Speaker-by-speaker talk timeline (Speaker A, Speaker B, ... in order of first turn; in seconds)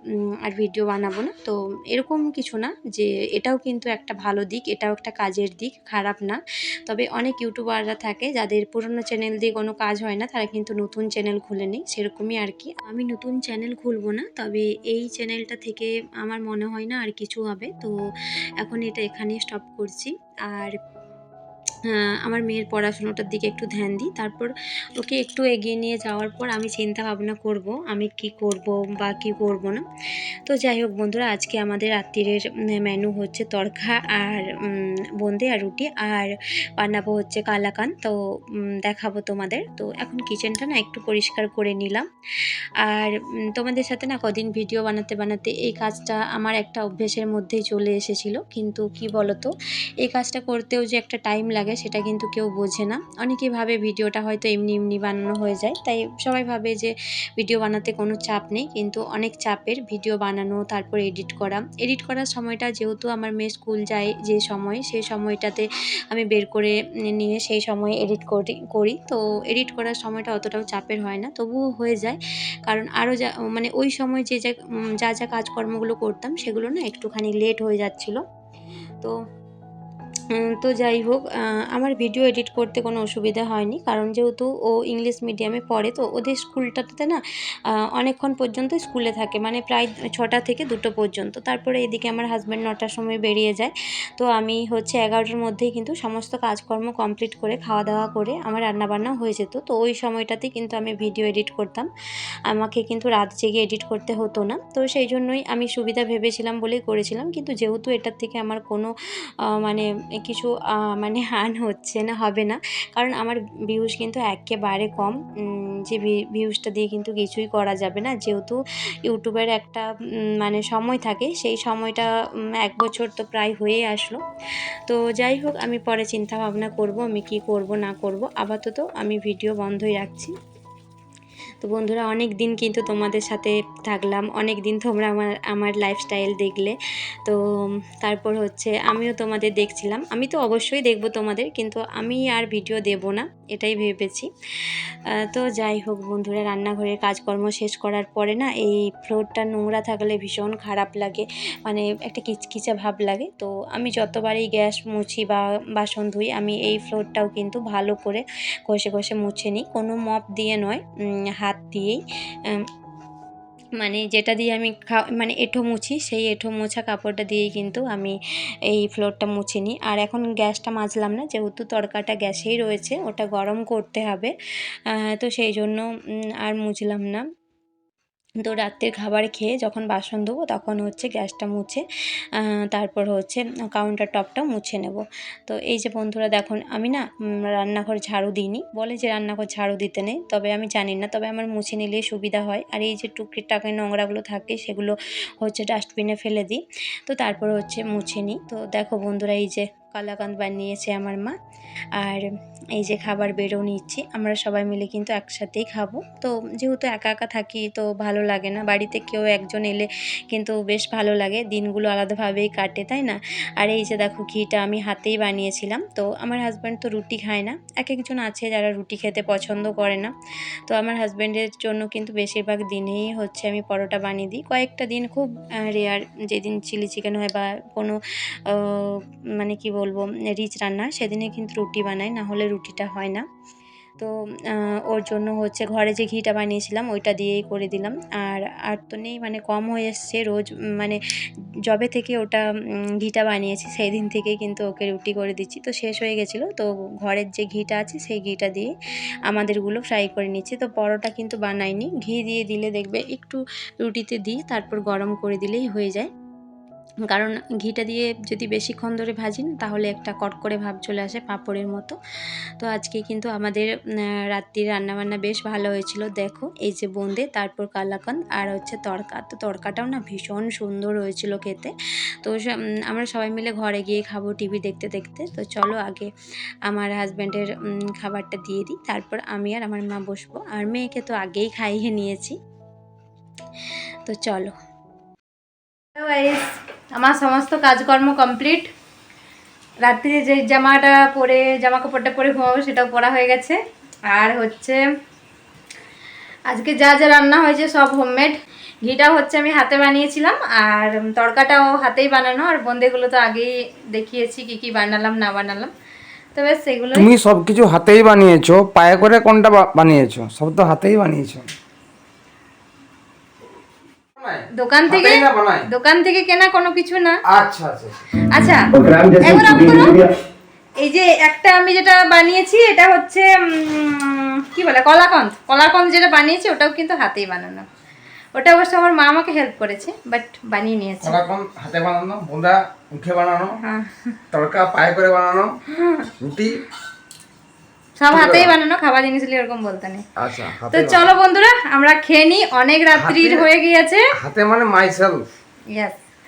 Speaker A: 0.4-17.9, 18.6-20.7, 21.9-29.8, 30.5-38.1, 38.8-42.0, 42.9-49.5, 50.0-78.2, 80.3-87.2, 87.9-101.9, 102.5-108.9, 109.5-119.8, 120.4-124.2, 124.9-130.3, 131.6-137.4, 138.0-144.3, 145.2-160.8, 161.4-162.0, 163.8-168.2, 168.7-174.3, 175.1-175.8, 176.4-177.2, 178.4-181.8, 182.4-201.3, 202.0-202.2, 202.8-220.1, 220.7-228.0, 228.5-233.2, 234.0-241.0, 241.7-242.4, 243.0-248.7, 249.3-256.1, 257.1-261.9, 262.6-263.7, 264.3-276.1, 276.7-282.4, 284.1-284.5
Speaker B: 285.9-288.7, 289.9-293.6, 294.1-294.8, 296.5-298.3, 298.8-305.7, 306.4-307.1, 314.6-317.1, 318.3-318.6, 319.2-319.9, 320.8-327.6, 328.3-331.2, 338.0-340.0, 340.7-344.0
Speaker C: 306.9-311.5, 314.2-315.7, 317.3-317.9, 318.7-320.1, 331.0-333.6, 334.3-335.5, 336.2-336.6, 338.1-338.5, 340.2-341.1, 342.9-343.5, 344.2-345.2